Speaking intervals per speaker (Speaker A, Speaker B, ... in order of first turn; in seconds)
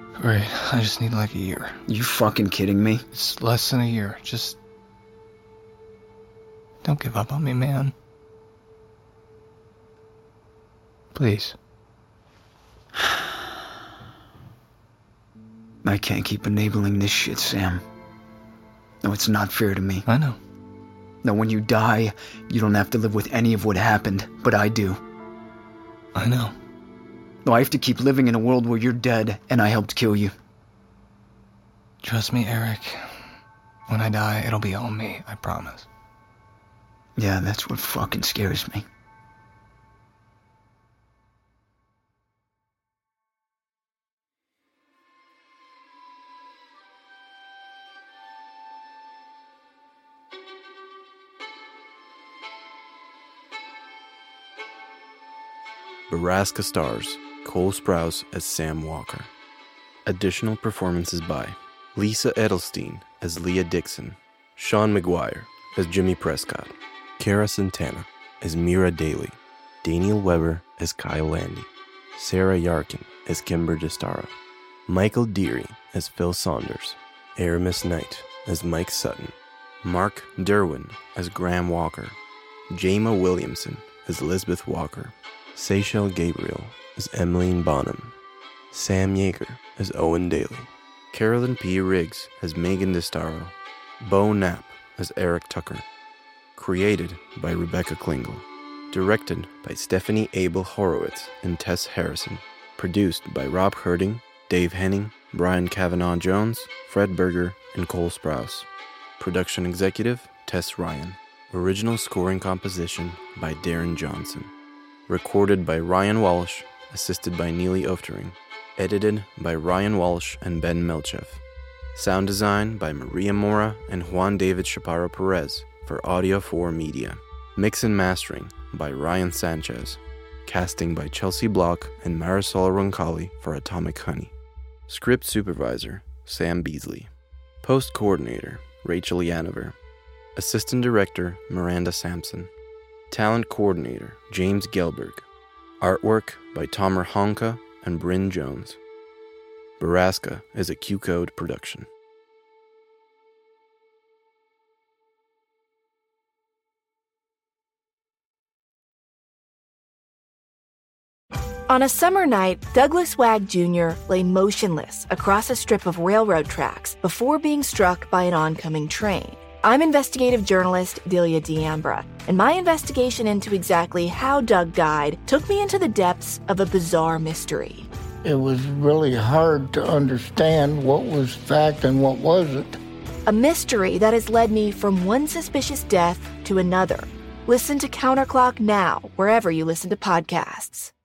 Speaker A: 0.2-1.8, 3.1-4.6, 6.8-7.9, 11.1-11.6, 20.1-20.4, 26.1-26.5, 32.0-33.2, 33.9-35.9
Speaker B: 1.9-3.0, 15.8-17.8, 19.0-20.1, 21.2-25.0, 27.4-30.3, 37.2-38.8
Speaker C: 56.1-59.3, 60.1-74.3, 74.9-82.2, 82.7-88.2, 88.7-95.8, 96.5-108.7, 109.2-114.5, 115.1-121.4, 122.0-134.3, 134.9-137.1, 137.6-139.8, 140.4-142.5, 143.1-145.3, 145.8-148.8, 149.8-151.9
Speaker D: 161.7-177.9, 183.3-190.9
Speaker E: 178.2-182.8